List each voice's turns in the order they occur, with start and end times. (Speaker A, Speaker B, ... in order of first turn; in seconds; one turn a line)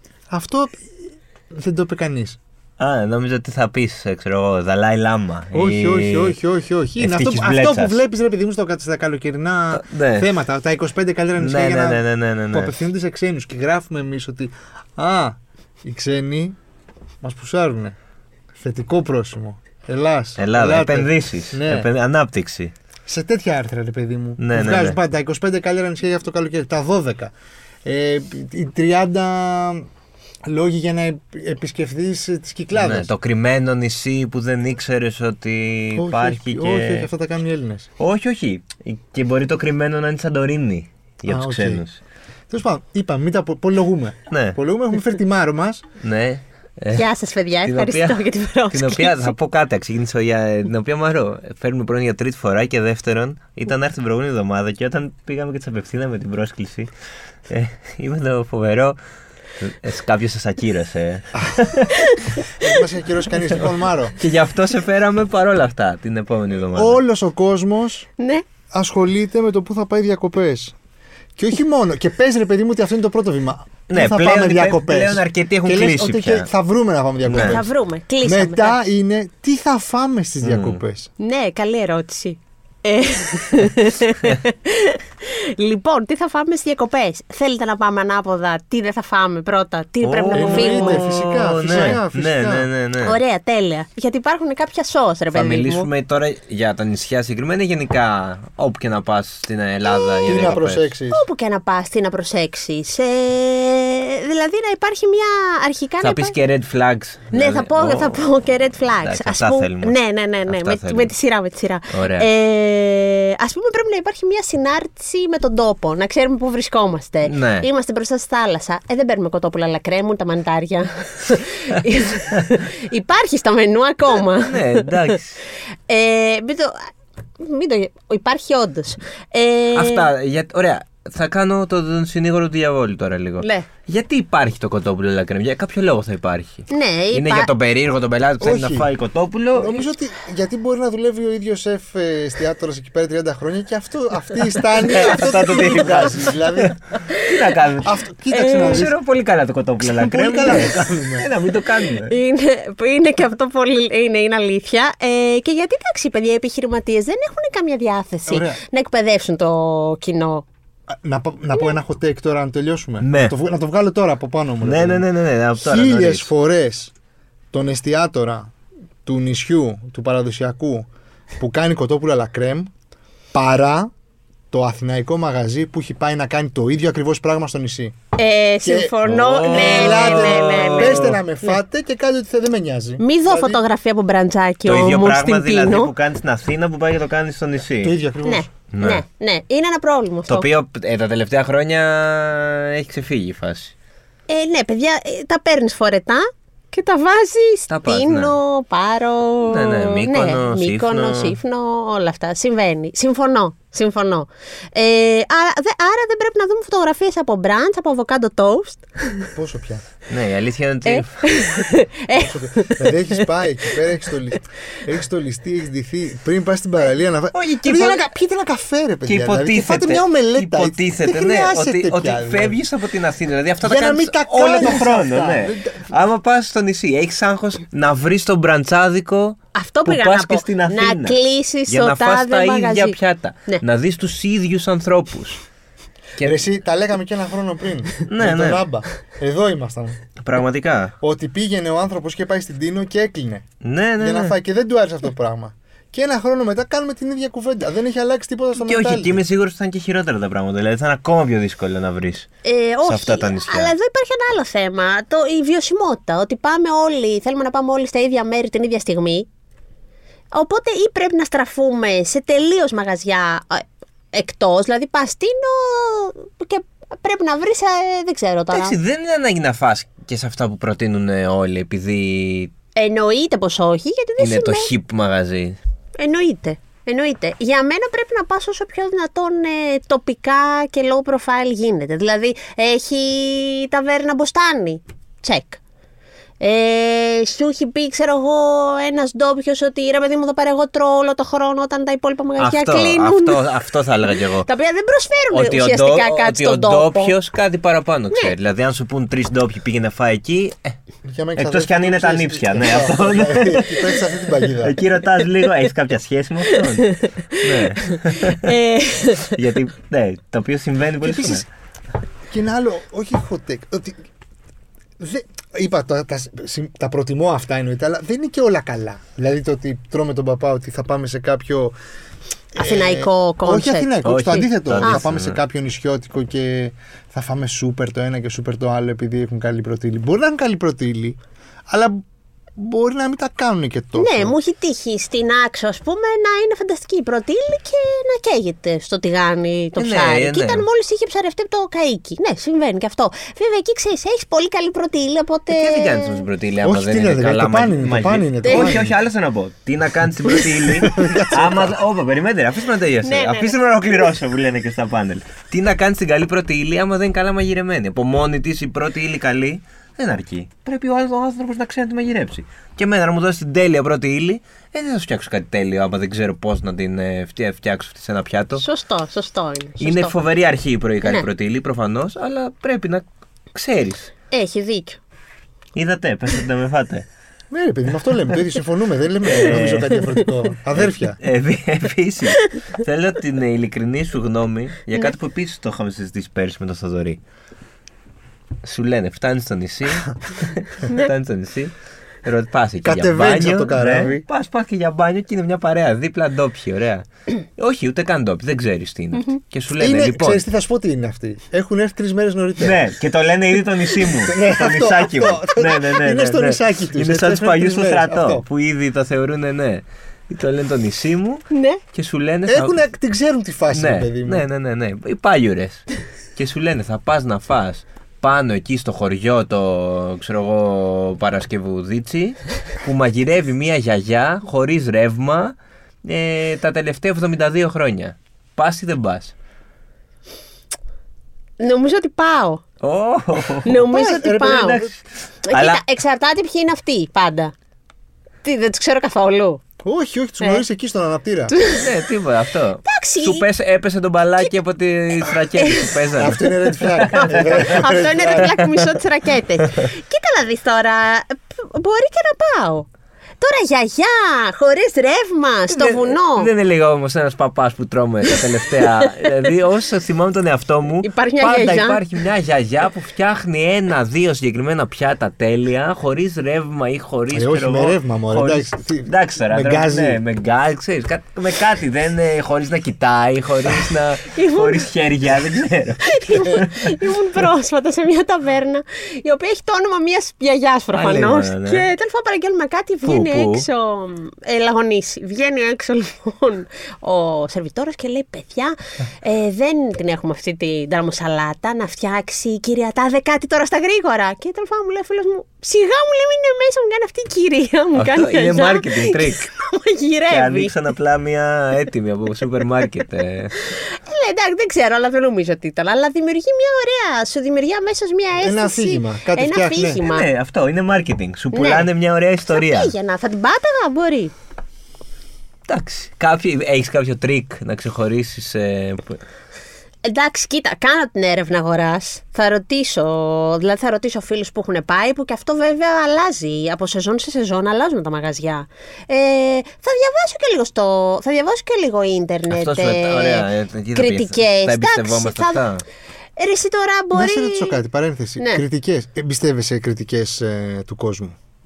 Speaker A: 0.3-0.8
Speaker A: 1.5-2.4
Speaker B: 2.8-6.4
Speaker A: 5.5-16.6
Speaker B: 7.0-8.0
Speaker B: 9.7-10.3
Speaker B: 11.4-12.7
Speaker A: 17.2-18.0
Speaker A: 18.6-21.9
Speaker B: 20.4-22.7
Speaker A: 23.1-27.3
Speaker B: 24.4-25.0
Speaker A: 27.9-29.9
Speaker A: 30.5-33.1
Speaker B: 32.7-37.1
Speaker A: 35.9-37.9
Speaker B: 38.0-42.0
Speaker A: 41.3-41.8
Speaker A: 42.5-45.9
Speaker B: 44.3-44.6
Speaker B: 46.0-47.1
Speaker C: 46.9-49.3
Speaker B: 47.6-56.9
Speaker B: 57.5-59.0
Speaker B: 59.6-62.1
Speaker A: 61.4-61.7
Speaker A: 62.6-64.2
Speaker B: 64.2-67.0
Speaker A: 66.7-68.1
Speaker C: 68.2-68.5
Speaker A: 68.7-70.8
Speaker A: 71.4-77.7
Speaker B: 73.9-76.5
Speaker B: 77.3-77.6
Speaker C: 77.4-78.8
Speaker A: 78.2-81.1
Speaker B: 80.4-80.8
Speaker C: 81.2-91.0
Speaker B: 90.0-93.2
Speaker A: 90.3-92.7
Speaker C: 93.0-95.9
Speaker B: 95.3-100.9
Speaker C: 99.8-100.5
Speaker A: 100.3-101.2
Speaker C: 101.1-106.4
Speaker B: 106.0-108.3
Speaker C: 107.3-125.2
Speaker B: 108.8-110.0
Speaker B: 110.5-111.1
Speaker B: 111.9-112.3
Speaker B: 117.2-117.7
Speaker B: 124.1-125.4
Speaker C: 125.9-126.8
Speaker C: 127.4-130.1
Speaker B: 129.8-139.8
Speaker C: 133.4-133.7
Speaker C: 136.7-137.5
Speaker A: 138.4-138.9
Speaker A: 139.6-146.8
Speaker B: 144.8-152.2
Speaker C: 147.1-147.4
Speaker A: 147.8-149.0
Speaker C: 148.3-148.9
Speaker A: 149.8-151.3
Speaker C: 152.1-160.4
Speaker A: 158.3-158.6
Speaker A: 160.9-165.1
Speaker B: 163.0-163.3
Speaker B: 164.6-166.3
Speaker A: 165.6-166.9
Speaker A: 167.5-168.5
Speaker A: 169.1-172.7
Speaker A: 173.3-173.9
Speaker A: 174.5-178.0
Speaker C: 178.2-181.1
Speaker A: 178.6-183.6
Speaker B: 179.1-181.2
Speaker C: 183.0-185.9
Speaker B: 184.7-187.9
Speaker A: 187.8-188.5
Speaker C: 188.2-190.5
Speaker B: 188.7-189.0
Speaker B: 190.3-193.7
Speaker C: 194.3-209.3
Speaker B: 197.7-198.3
Speaker B: 199.5-201.4
Speaker A: 209.3-209.9
Speaker B: 210.1-211.3
Speaker C: 210.9-213.8
Speaker A: 212.1-222.6
Speaker B: 217.3-218.1
Speaker B: 219.1-235.4
Speaker A: 223.6-225.9
Speaker C: 229.5-233.6
Speaker B: 236.2-236.4
Speaker A: 236.2-240.0
Speaker B: 238.1-238.7
Speaker B: 240.2-240.9
Speaker A: 241.0-243.4
Speaker B: 243.6-244.4
Speaker A: 244.0-249.2
Speaker B: 248.6-252.3
Speaker C: 252.4-259.3
Speaker B: 252.8-253.7
Speaker C: 260.3-268.8
Speaker B: 268.5-272.5
Speaker C: 272.8-274.7
Speaker B: 274.2-275.6
Speaker C: 276.0-285.6
Speaker C: 286.4-293.4
Speaker B: 292.4-294.5
Speaker C: 294.4-297.1
Speaker B: 295.3-300.8
Speaker A: 301.1-304.8
Speaker B: 301.4-308.6
Speaker C: 306.5-309.4
Speaker B: 309.2-311.5
Speaker A: 311.0-311.4
Speaker A: 312.3-314.0
Speaker A: 315.0-321.8
Speaker A: 322.5-332.0
Speaker C: 322.6-325.0
Speaker B: 324.0-325.4
Speaker A: 332.6-334.4
Speaker C: 334.0-346.2
Speaker B: 339.8-340.7
Speaker B: 345.5-368.7
Speaker A: 346.6-349.0
Speaker C: 348.4-348.8
Speaker A: 350.5-351.8
Speaker C: 353.0-353.6
Speaker C: 368.6-370.2
Speaker B: 369.8-374.1
Speaker C: 371.0-371.3
Speaker C: 374.3-375.0
Speaker B: 375.7-377.1
Speaker A: 377.5-381.2
Speaker B: 379.3-380.1
Speaker B: 380.7-387.2
Speaker B: 388.6-400.4
Speaker A: 392.8-394.2
Speaker A: 399.8-402.8
Speaker B: 402.6-412.8
Speaker A: 404.2-408.4
Speaker C: 411.5-411.8
Speaker A: 412.5-414.5
Speaker B: 413.7-429.3
Speaker C: 431.6-432.6
Speaker B: 432.8-435.8
Speaker C: 433.6-434.8
Speaker A: 433.9-434.9
Speaker C: 435.5-437.5
Speaker C: 438.4-439.6
Speaker A: 439.8-441.5
Speaker C: 441.5-441.9
Speaker B: 441.7-447.8
Speaker C: 442.9-443.5
Speaker C: 445.3-446.0
Speaker A: 446.2-448.6
Speaker C: 447.0-452.9
Speaker C: 453.4-456.5
Speaker B: 455.7-476.9
Speaker C: 458.4-459.3
Speaker C: 461.0-462.0
Speaker A: 467.3-470.2
Speaker C: 474.2-474.9
Speaker C: 476.0-500.7
Speaker B: 480.9-481.9
Speaker B: 483.1-483.7
Speaker B: 497.9-499.5
Speaker B: 500.3-503.5
Speaker C: 503.6-510.3
Speaker A: 508.4-510.0
Speaker B: 510.0-512.9
Speaker C: 511.5-511.9
Speaker C: 512.5-514.3
Speaker B: 515.7-519.2
Speaker C: 520.0-535.6
Speaker B: 532.5-535.9
Speaker C: 536.4-537.8
Speaker A: 537.1-541.4